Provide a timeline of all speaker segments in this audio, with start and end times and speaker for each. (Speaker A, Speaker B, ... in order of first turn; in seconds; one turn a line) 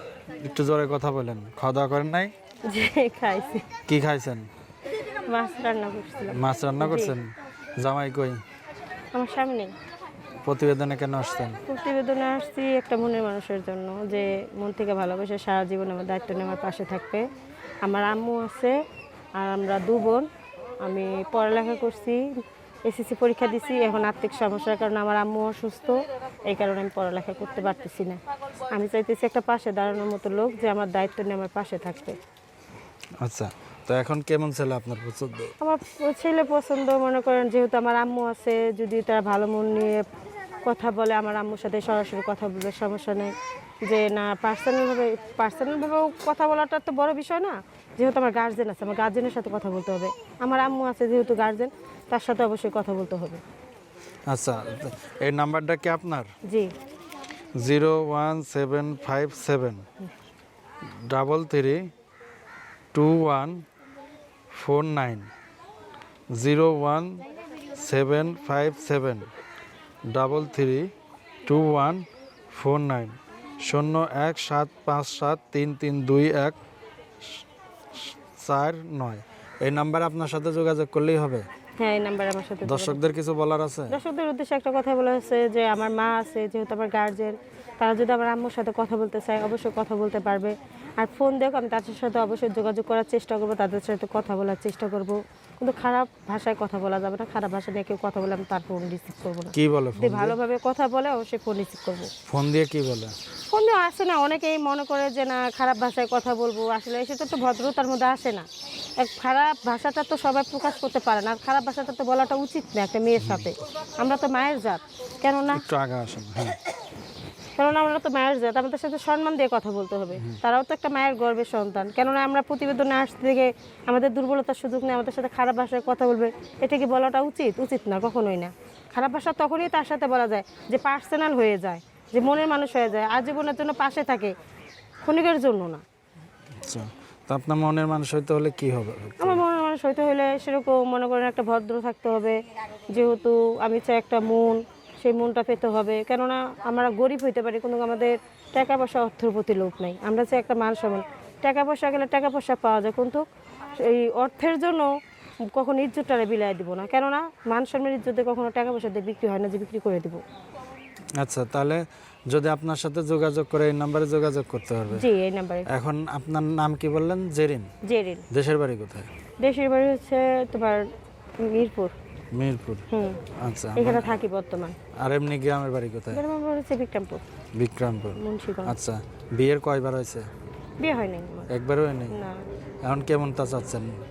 Speaker A: 0.3-2.3
Speaker B: 2.7-3.7
Speaker A: 3.9-4.5
Speaker B: 5.0-7.1
Speaker A: 6.3-8.4
Speaker B: 9.1-9.7
Speaker A: 10.4-11.6
Speaker B: 11.7-17.2
Speaker B: 17.8-18.8
Speaker B: 19.4-20.3
Speaker B: 20.8-22.3
Speaker B: 22.9-28.2
Speaker B: 28.7-32.1
Speaker A: 33.2-35.5
Speaker B: 35.6-40.0
Speaker B: 40.6-53.4
Speaker A: 54.3-56.3
Speaker B: 56.5-56.7
Speaker A: 57.5-59.9
Speaker A: 61.1-61.9
Speaker A: 62.9-63.6
Speaker A: 64.5-65.3
Speaker A: 66.3-67.2
Speaker A: 67.7-69.3
Speaker A: 70.1-70.9
Speaker A: 71.5-76.6
Speaker A: 77.2-81.5
Speaker B: 81.8-83.0
Speaker A: 82.6-84.0
Speaker B: 83.9-102.1
Speaker A: 99.5-100.4
Speaker A: 102.3-103.1
Speaker B: 103.5-108.5
Speaker B: 109.0-115.7
Speaker A: 113.2-113.5
Speaker A: 115.5-116.6
Speaker B: 117.6-134.3
Speaker B: 135.0-135.8
Speaker A: 136.6-139.4
Speaker B: 139.2-142.4
Speaker B: 142.9-160.2
Speaker A: 161.2-165.1
Speaker B: 164.9-165.7
Speaker A: 165.7-167.7
Speaker B: 167.8-168.3
Speaker A: 168.3-169.1
Speaker B: 169.4-170.9
Speaker B: 171.4-171.9
Speaker A: 172.3-172.9
Speaker B: 172.9-173.2
Speaker A: 173.4-174.2
Speaker B: 173.8-174.8
Speaker A: 175.0-176.2
Speaker B: 176.1-177.2
Speaker A: 177.6-180.3
Speaker B: 178.2-178.8
Speaker B: 180.8-181.5
Speaker A: 181.5-182.2
Speaker B: 182.1-182.5
Speaker A: 182.8-184.0